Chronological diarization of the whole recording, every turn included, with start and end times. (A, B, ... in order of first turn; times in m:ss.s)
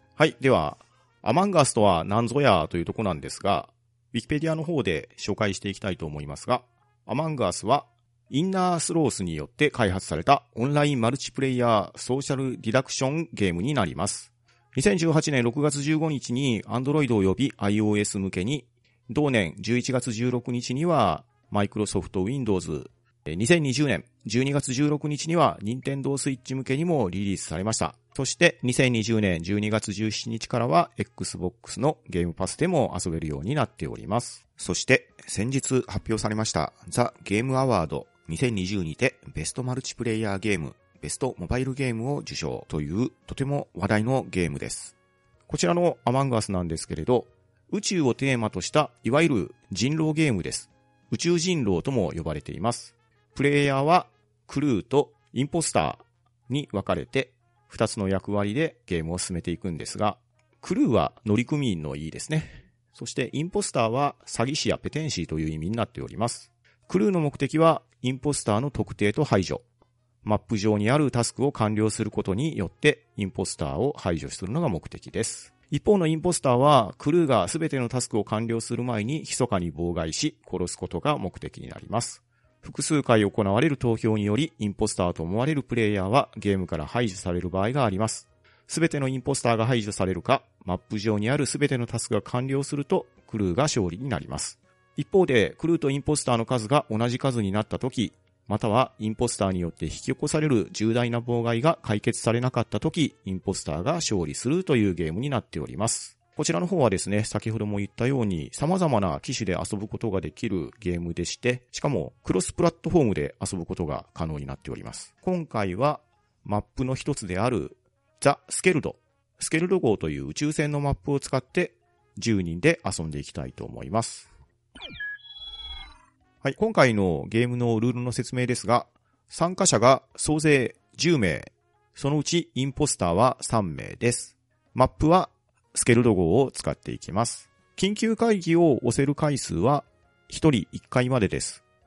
0:00.2-0:44.9 A
0:45.5-1:09.6 A
1:10.2-2:04.3 A
2:06.4-2:21.6 A